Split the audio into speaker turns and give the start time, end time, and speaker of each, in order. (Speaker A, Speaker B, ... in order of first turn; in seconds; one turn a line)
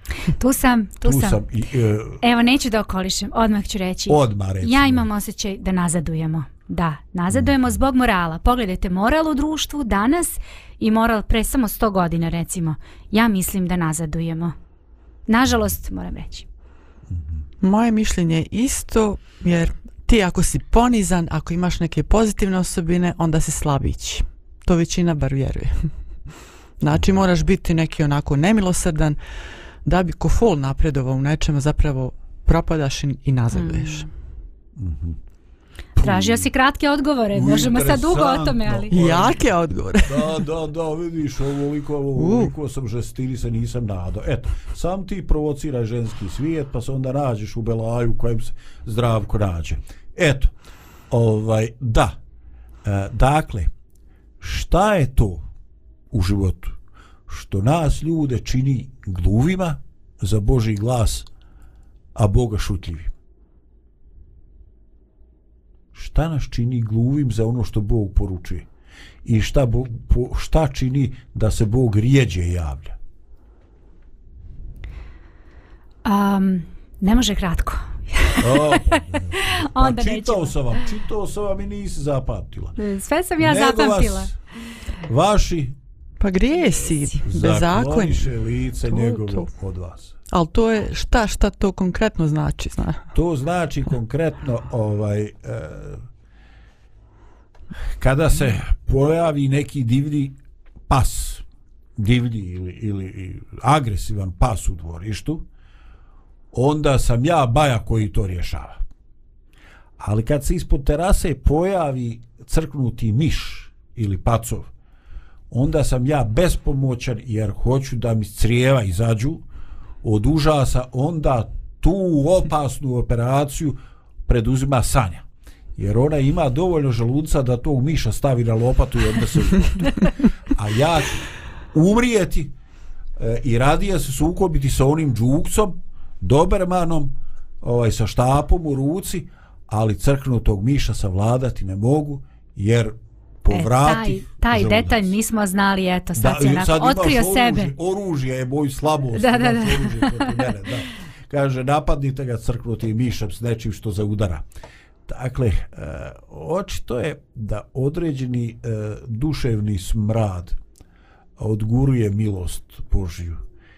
Speaker A: 0.4-1.4
Speaker B: 1.0-2.2
Speaker A: 2.2-14.6
Speaker B: 4.1-5.1
Speaker B: 7.3-7.6
Speaker A: 15.3-16.5
Speaker C: 17.6-25.9
Speaker C: 26.8-29.2
Speaker C: 29.9-34.1
Speaker A: 33.5-34.0
Speaker B: 34.8-35.2
Speaker B: 36.0-36.5
Speaker A: 36.0-38.9
Speaker B: 37.3-39.5
Speaker C: 38.9-40.4
Speaker B: 40.0-50.5
Speaker C: 42.2-42.5
Speaker B: 51.1-52.2
Speaker B: 52.8-53.7
Speaker B: 54.4-55.5
Speaker B: 56.1-56.8
Speaker B: 57.3-61.3
Speaker B: 62.1-63.1
Speaker B: 65.9-68.7
Speaker B: 69.2-73.0
Speaker A: 76.0-80.5
Speaker B: 78.4-82.8
Speaker A: 82.8-84.3
Speaker B: 83.4-84.4
Speaker B: 85.1-85.8
Speaker C: 86.2-88.3
Speaker B: 87.2-90.1
Speaker C: 88.9-89.5
Speaker C: 90.3-93.0
Speaker B: 93.1-96.0
Speaker B: 98.0-100.4
Speaker B: 100.9-101.4
Speaker B: 102.0-105.5
Speaker B: 106.5-108.8
Speaker B: 110.0-114.7
Speaker B: 115.5-119.4
Speaker B: 120.0-132.5
Speaker B: 133.2-145.2
Speaker A: 143.5-147.7
Speaker B: 146.2-154.4
Speaker A: 149.1-150.5
Speaker B: 155.1-160.6
Speaker B: 161.4-163.4